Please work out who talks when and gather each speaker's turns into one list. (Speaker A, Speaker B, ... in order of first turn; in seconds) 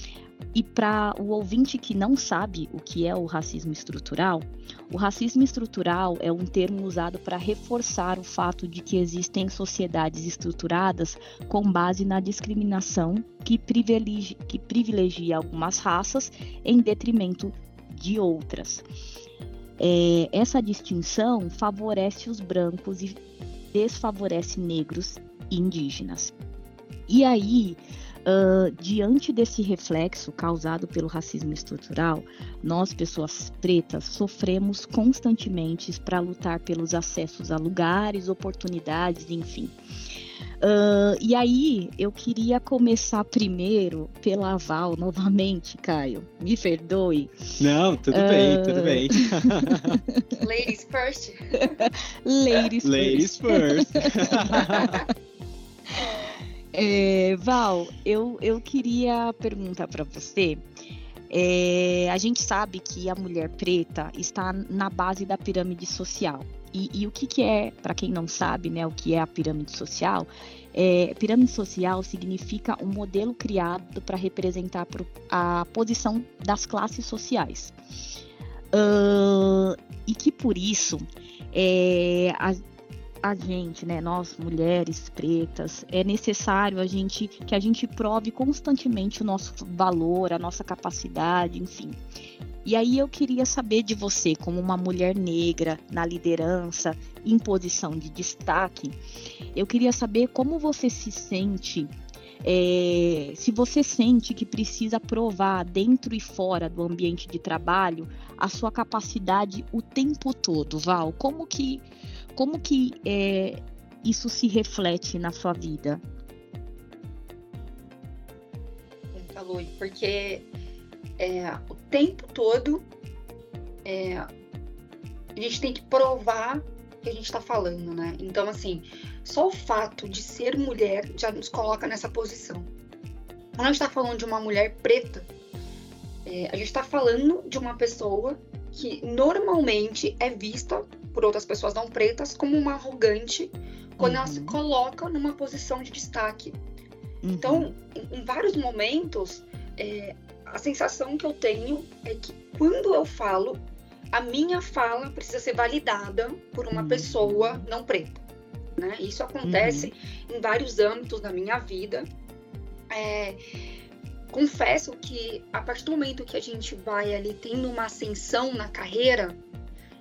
Speaker A: 0.5-18.8, 19.8-23.2, 23.7-26.3, 27.1-39.8, 40.6-47.6, 48.1-50.2, 51.6-54.9, 56.7-60.6, 61.3-77.8, 78.7-82.6, 83.2-92.0, 92.7-99.0, 99.5-116.0, 144.0-144.6, 147.2-147.7, 156.7-157.7, 159.4-159.9
Speaker B: 47.6-50.0, 52.8-55.0
Speaker C: 50.4-51.7, 119.1-120.5, 121.2-122.9, 123.8-124.3, 125.4-132.7, 133.6-135.3, 136.3-146.6, 147.4-158.2, 158.8-162.1, 162.9-163.4, 164.3-169.4